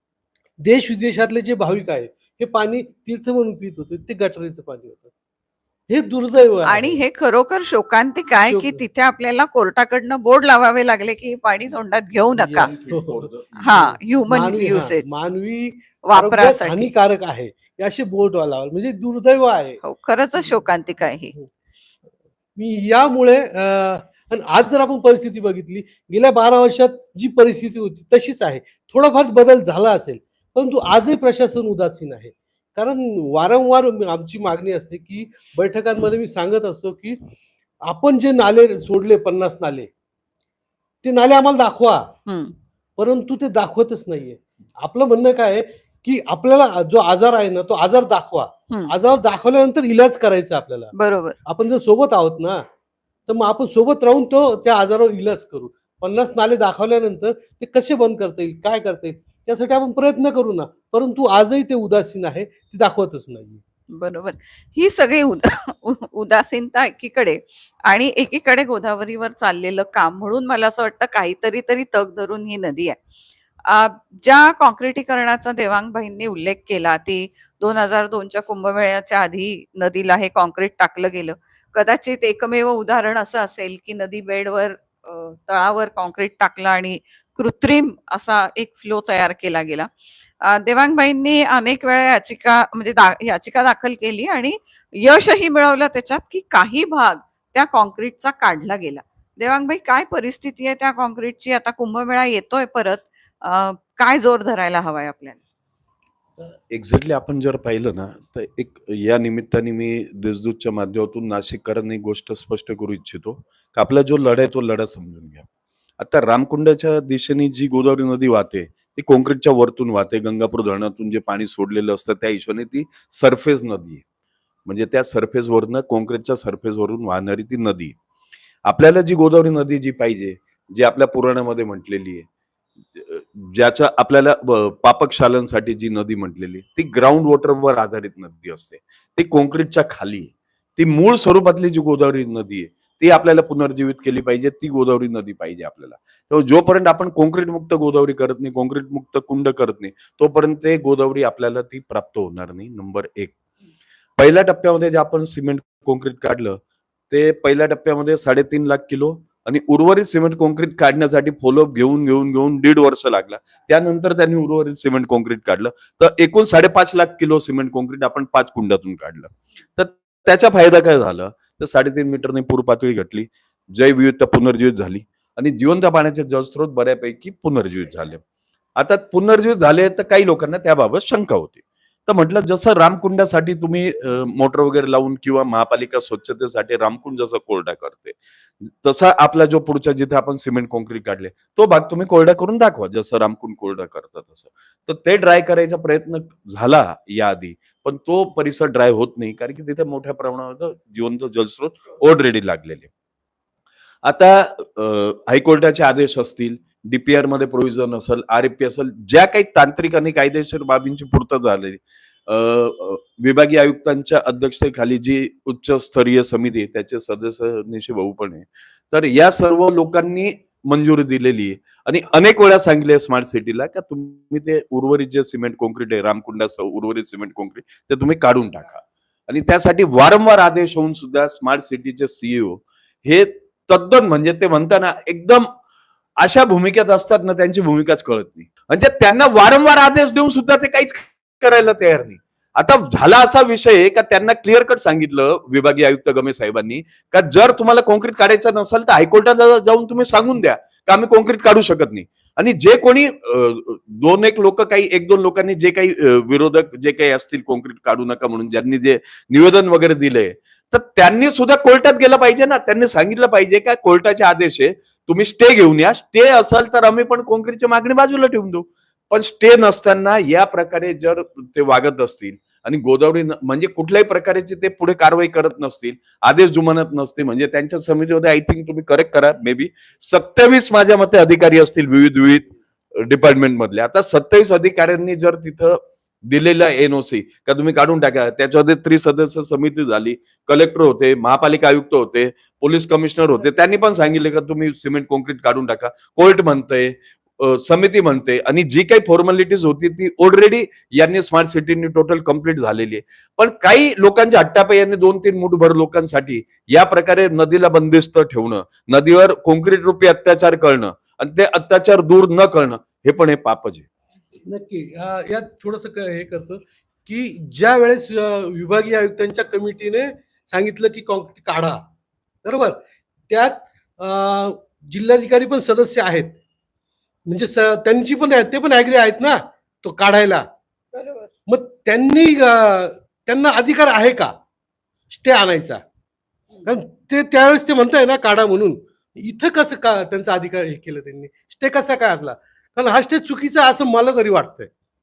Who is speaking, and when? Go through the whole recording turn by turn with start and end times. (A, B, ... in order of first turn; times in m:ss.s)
0:00.6-0:05.1 A
0:05.9-0:07.0 A
0:06.6-0:12.7 B
0:08.5-0:08.8 A
0:12.4-0:13.3 A
0:12.6-0:14.0 C
0:13.6-0:15.1 B
0:14.3-0:19.8 A
0:16.0-0:16.9 B
0:19.8-0:21.3 B
0:22.6-0:37.2 A
0:37.9-0:39.9 A
0:41.0-0:42.1 A
0:42.3-0:42.5 B
0:43.0-0:50.9 A
0:50.9-0:51.3 B
0:51.4-0:52.6 A
0:53.3-1:03.6 A
1:03.9-1:13.0 B
1:13.6-1:29.9 B
1:30.4-1:45.4 B
1:46.4-1:55.5 C
1:56.0-2:04.0 C
2:04.6-2:08.0 C
2:08.6-2:12.3 C
2:12.9-2:33.4 C
2:34.2-2:36.6 C
2:37.1-2:58.2 C
2:58.8-3:22.9 C
3:24.0-3:55.5 C
3:56.2-5:13.8 C
4:53.4-4:53.7 B
5:14.5-5:21.8 A
5:22.4-5:26.4 A
5:27.3-5:30.4 A
5:30.9-5:31.3 B
5:31.5-5:34.3 A
5:35.1-5:35.8 A
5:36.6-5:44.7 A